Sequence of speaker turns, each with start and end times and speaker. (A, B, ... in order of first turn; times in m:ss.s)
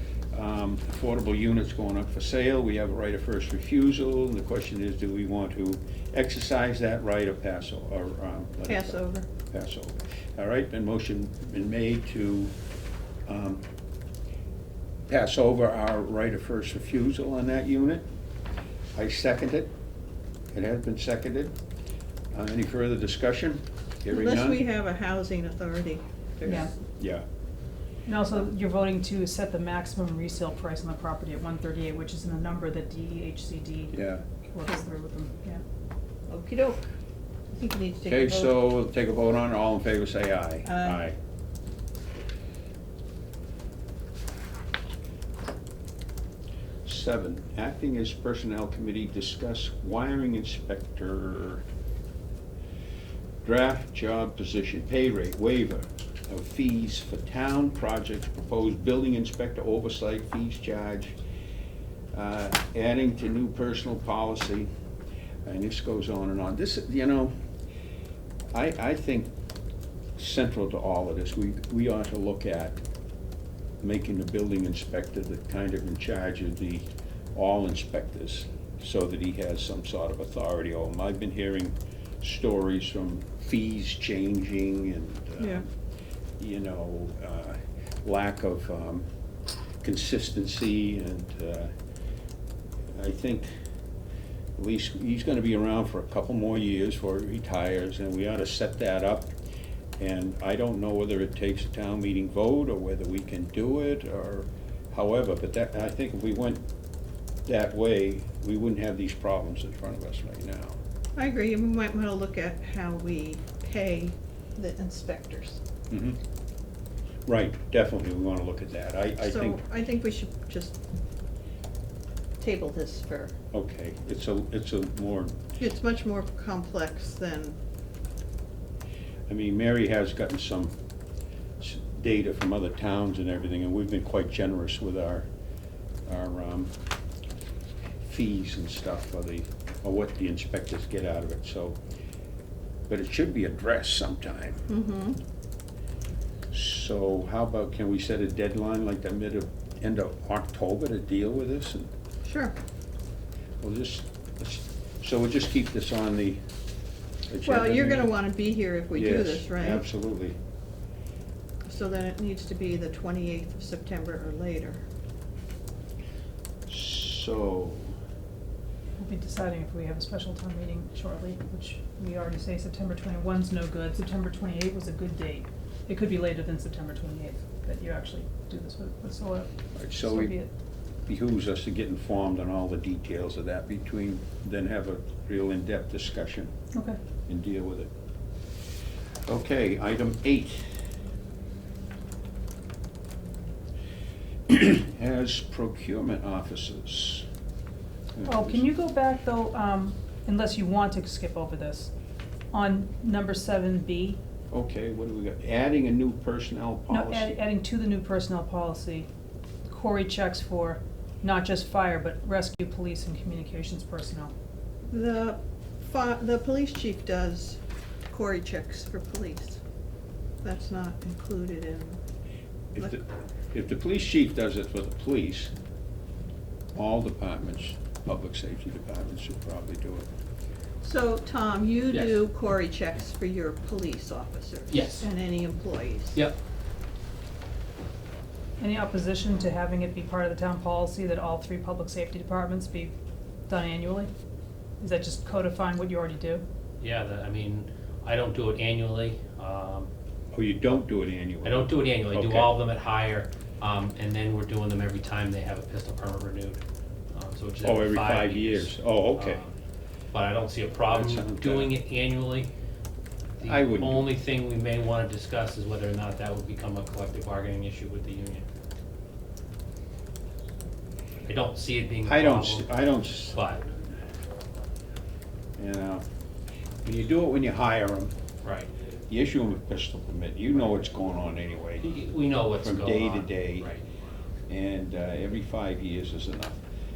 0:00.3-0:12.5 A
0:08.7-0:09.3 B
0:13.3-0:13.6 A
0:15.1-0:18.0 A
0:19.0-0:19.7 A
0:20.5-0:21.5 A
0:22.3-0:24.7 A
0:24.1-0:26.7 B
0:26.5-0:26.7 C
0:27.0-0:27.2 A
0:28.1-0:35.6 C
0:33.9-0:34.2 A
0:36.3-0:36.8 B
0:37.5-0:38.6 B
0:38.0-0:41.2 A
0:40.6-0:41.1 B
0:46.8-0:51.6 A
0:53.4-1:01.2 A
1:02.1-1:04.7 A
1:05.4-1:07.3 A
1:08.5-1:09.3 A
1:10.2-1:12.8 A
1:13.8-1:25.7 A
1:25.4-1:25.6 B
1:26.4-1:29.1 A
1:29.8-1:31.7 A
1:32.9-1:33.5 A
1:34.6-1:39.3 A
1:40.0-1:46.6 A
1:47.5-1:50.8 A
1:51.2-1:55.6 B
1:55.9-1:56.2 A
1:57.3-1:59.6 A
1:59.2-2:00.8 B
2:02.4-2:03.4 B
2:03.5-2:05.5 A
2:05.6-2:07.6 B
2:09.3-2:10.8 A
2:11.6-2:15.3 A
2:16.1-2:16.7 A
2:18.0-2:21.8 A
2:22.9-2:24.7 A
2:24.7-2:25.2 B
2:26.5-2:31.9 A
2:32.2-2:32.5 B
2:33.6-2:36.4 A
2:37.3-2:38.2 A
2:37.4-2:39.8 B
2:38.9-2:40.4 A
2:41.7-2:44.8 B
2:46.7-2:48.0 A
2:49.0-3:00.5 C
2:59.8-3:00.4 A
3:01.1-3:06.5 A
3:06.7-3:07.0 C
3:07.3-3:07.9 A
3:09.3-3:10.6 A
3:14.5-3:17.3 A
3:18.2-3:18.7 A
3:18.2-3:21.9 C
3:22.5-3:24.2 C
3:24.5-3:27.4 A
3:26.9-3:29.1 C
3:29.7-3:34.3 C
3:34.9-3:37.6 B
3:38.1-3:39.6 B
3:40.4-3:42.0 B
3:42.7-3:45.5 A
3:46.8-3:50.1 A
3:50.8-3:56.2 B
3:51.9-3:52.2 D
3:54.7-3:55.1 D
3:58.6-4:02.9 C
4:03.5-4:04.1 C
4:04.8-4:06.4 C
4:06.8-4:09.9 D
4:10.3-4:12.6 A
4:11.4-4:19.6 D
4:17.6-4:19.4 A
4:20.1-4:22.5 D
4:20.9-4:21.7 A
4:23.4-4:28.5 D
4:23.4-4:24.1 A
4:31.2-4:32.7 D
4:32.1-4:33.4 A
4:33.3-4:33.6 D
4:35.6-4:36.0 A
4:36.8-4:38.1 A
4:38.4-4:38.7 D
4:39.1-4:41.9 A
4:41.8-4:43.8 D
4:42.6-4:43.8 A
4:44.5-4:46.6 A